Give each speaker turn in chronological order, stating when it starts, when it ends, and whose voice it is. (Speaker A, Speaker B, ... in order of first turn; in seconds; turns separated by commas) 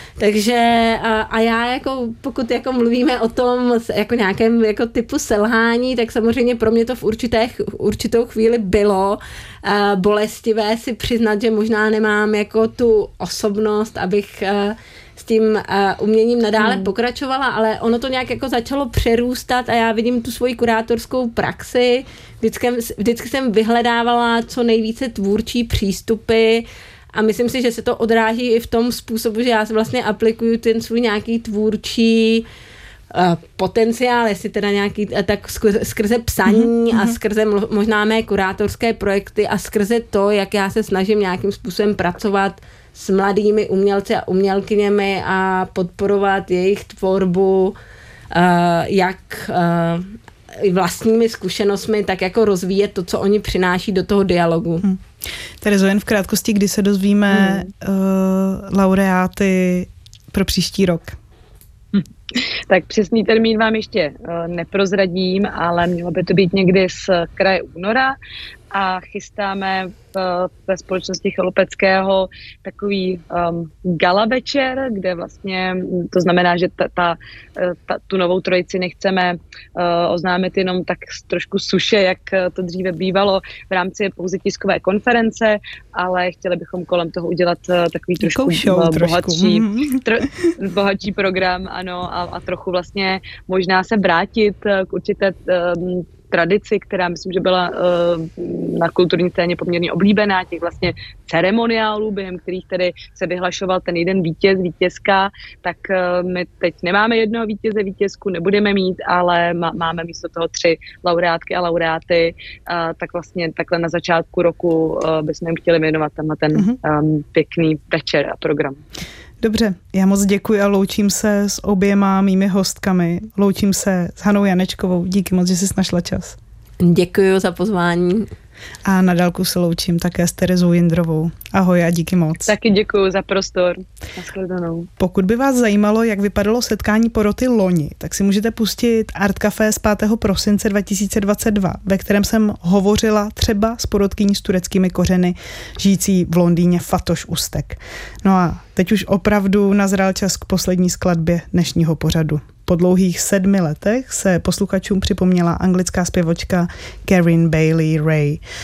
Speaker A: 0.2-32.5, Speaker B: 16.6-16.9, Speaker A: 33.1-47.8, Speaker C: 36.5-37.1, Speaker A: 48.3-54.8, Speaker C: 55.6-61.2, Speaker B: 57.3-57.7, Speaker B: 61.9-68.2, Speaker B: 68.7-118.8, Speaker C: 88.2-90.5, Speaker C: 119.4-126.4, Speaker A: 126.8-128.3, Speaker C: 128.8-132.5, Speaker B: 132.5-134.9, Speaker C: 135.0-158.4